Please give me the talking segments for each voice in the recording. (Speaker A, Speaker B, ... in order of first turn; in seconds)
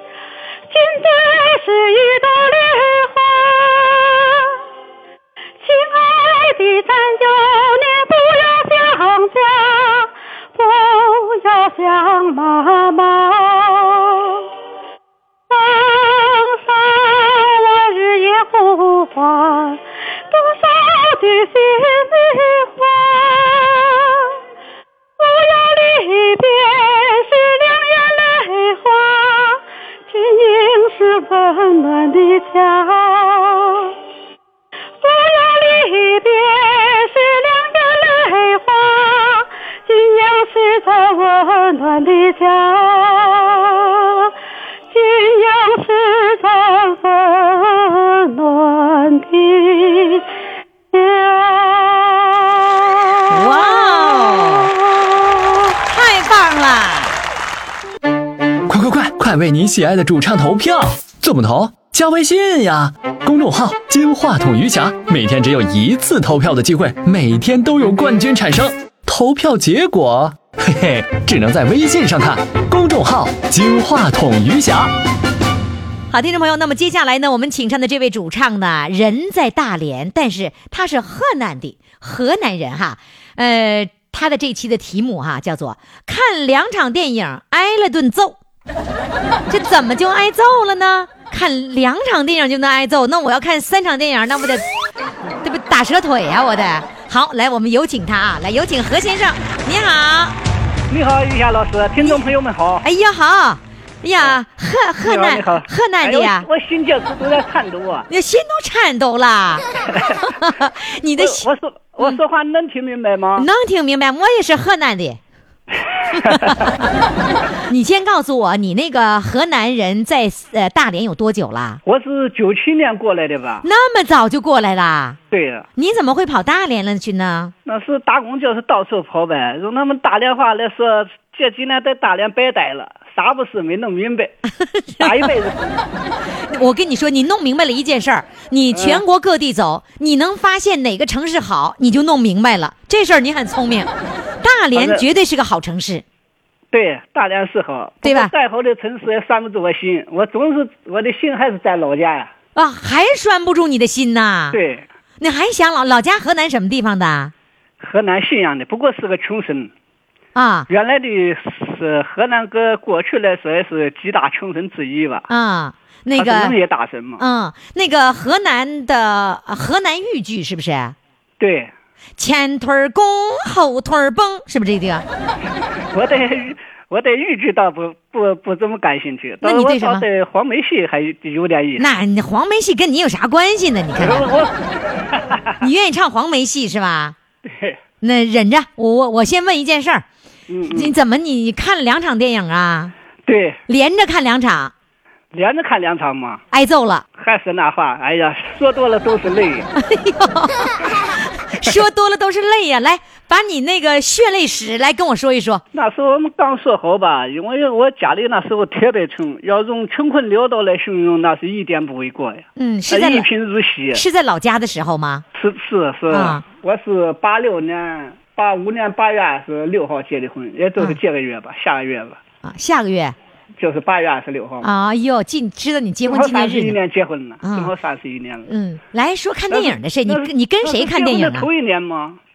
Speaker A: 0.7-4.6, 5.6-14.4, 15.5-24.4, 25.2-33.9, 35.0-44.3, 44.9-50.2, 50.9-53.9, 54.4-55.6
Speaker B: 53.3-54.7, 55.8-57.2, 76.1-88.4, 89.5-94.7, 95.4-100.4, 102.8-106.5, 108.1-109.7, 110.2-111.5, 113.4-115.2, 116.1-116.7, 117.7-121.8, 123.6-125.2, 125.8-127.5, 134.9-135.3, 136.5-143.9, 144.4-146.0, 148.0-148.3, 152.6-154.6, 155.2-157.3, 160.3-160.7, 165.3-166.6, 167.2-171.0, 172.2-175.1, 179.4-180.1, 181.8-184.3, 185.6-187.2, 188.0-190.1, 190.7-192.9, 193.7-194.7, 196.5-197.0, 199.8-205.6, 212.6-213.3, 213.9-215.2, 216.1-216.4, 222.4-223.2, 224.6-226.8, 227.4-227.7, 228.5-231.5
Speaker C: 58.7-74.9
Speaker D: 100.9-102.8, 105.0-108.1, 111.2-113.5, 116.1-116.7, 121.9-123.7, 125.3-125.7, 127.7-134.3, 135.0-135.8, 138.7-139.0, 144.8-145.1, 146.7-152.3, 154.5-154.9, 157.8-159.7, 160.7-165.3, 166.2-167.2, 171.4-171.7, 175.9-181.9, 184.0-185.6, 187.4-187.8, 190.5-190.9, 193.3-193.6, 195.3-196.4, 197.2-199.7, 205.7-214.0, 215.3-222.2, 223.6-224.7, 226.1-228.5, 229.5-232.2